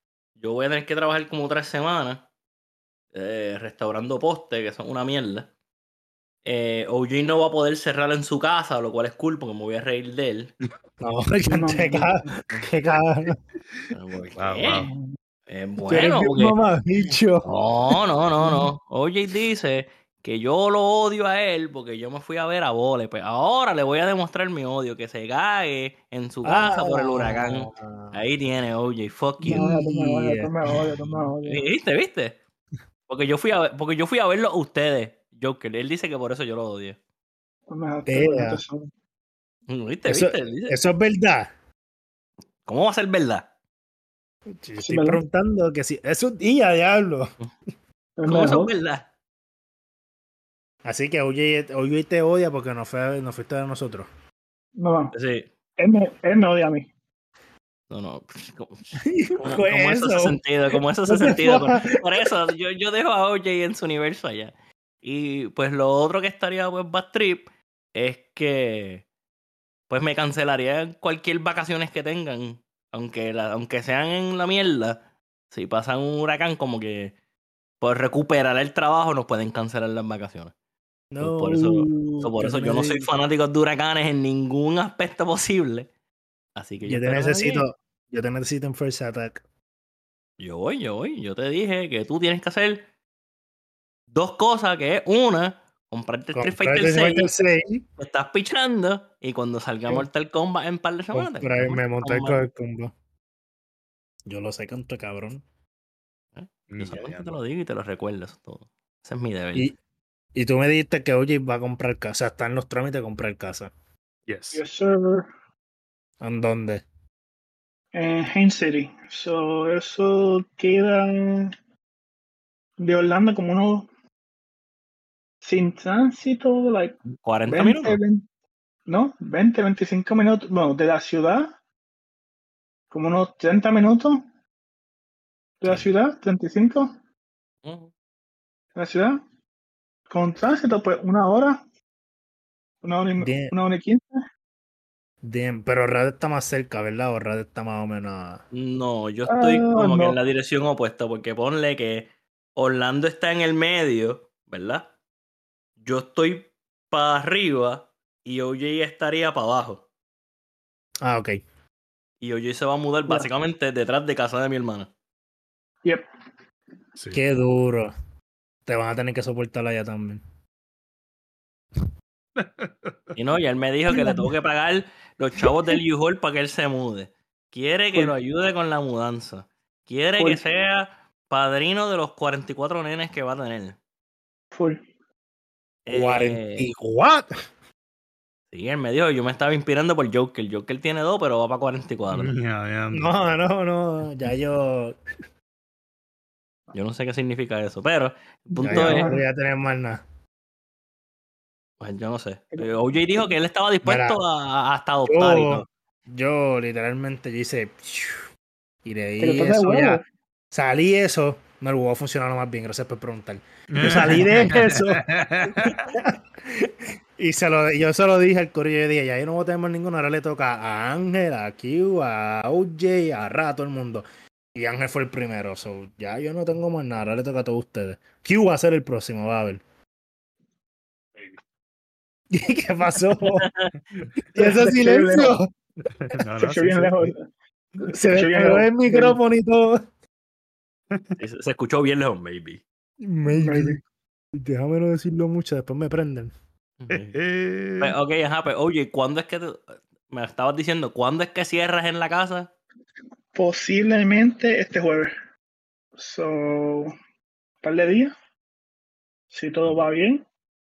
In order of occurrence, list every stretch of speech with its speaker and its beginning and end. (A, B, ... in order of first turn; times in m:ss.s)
0:00.4-0:02.2 A
0:03.1-0:05.5 A
0:06.4-0:10.5 A
0:11.0-0:13.4 B
0:11.5-0:12.2 C
0:13.9-0:14.9 A
0:14.3-0:14.9 D
0:14.9-0:15.1 C
0:15.5-0:16.6 A
0:15.9-0:17.5 B
0:17.4-0:29.7 A
0:26.4-0:28.2 B
0:29.4-0:30.5 B
0:29.4-0:31.6 C
0:31.4-0:32.4 A
0:33.1-0:37.0 A
0:37.7-0:38.9 C
0:38.1-0:38.6 B
0:39.7-0:40.8 A
0:40.1-0:41.5 B
0:42.6-0:43.5 A
0:44.6-0:47.3 B
0:44.8-0:45.2 C
0:48.2-0:48.7 C
0:48.2-0:49.1 A
0:50.8-0:54.1 B
0:54.8-0:55.1 C
0:55.1-0:55.5 A
0:55.8-0:56.9 C
0:57.9-1:09.0 A
0:59.0-1:02.2 B
1:09.9-1:17.1 A
1:17.8-1:20.5 A
1:21.1-1:23.1 B
1:21.2-1:25.9 A
1:26.6-1:27.6 A
1:26.8-1:29.4 B
1:30.4-1:32.8 A
1:34.1-1:37.3 A
1:36.3-1:37.8 B
1:38.0-1:42.4 A
1:41.1-1:42.9 B
1:44.2-1:45.4 B
1:46.3-1:49.7 A
1:46.7-1:47.4 D
1:50.3-1:53.7 B
1:54.3-1:54.6 D
1:54.5-1:55.3 C
1:56.2-1:56.8 B
1:57.9-2:01.5 C
2:02.8-2:03.9 C
2:05.4-2:08.2 C
2:07.2-2:08.0 A
2:08.9-2:11.5 C
2:12.9-2:14.2 C
2:15.6-2:16.9 C
2:17.6-2:17.9 A
2:18.7-2:19.2 C
2:20.1-2:21.6 C
2:22.8-2:24.2 C
2:23.2-2:23.5 B
2:25.2-2:28.4 B
2:28.5-2:34.9 A
2:29.3-2:30.2 C
2:35.8-2:39.8 A
2:41.0-2:41.4 B
2:42.2-2:44.9 A
2:47.1-2:47.9 B
2:48.6-2:50.2 B
2:52.4-2:53.2 D
2:53.2-3:03.8 A
3:00.2-3:00.4 C
3:04.5-3:04.8 C
3:05.8-3:06.7 A
3:05.9-3:07.3 B
3:08.5-3:12.3 A
3:12.1-3:13.1 D
3:12.9-3:15.0 B
3:16.7-3:19.1 A
3:18.5-3:19.2 C
3:18.6-3:20.0 B
3:21.8-3:25.7 A
3:23.8-3:24.2 B
3:25.1-3:28.2 B
3:28.8-3:49.6 B
3:29.2-3:30.0 C
3:33.7-3:35.9 D
3:52.3-3:53.5 B
3:53.2-3:53.7 A
3:54.3-3:55.4 C
3:54.3-3:55.5 B
3:56.0-3:57.1 D
3:56.4-3:57.2 C
3:57.8-3:59.8 B
3:57.9-3:59.2 C
4:00.9-4:01.2 D
4:01.2-4:02.6 A
4:03.0-4:03.8 B
4:03.3-4:03.8 C
4:04.3-4:06.3 B
4:06.8-4:07.2 A
4:06.9-4:08.0 D
4:07.8-4:12.5 A
4:13.3-4:15.1 C
4:16.0-4:16.9 C
4:17.6-4:18.1 C
4:19.3-4:20.2 C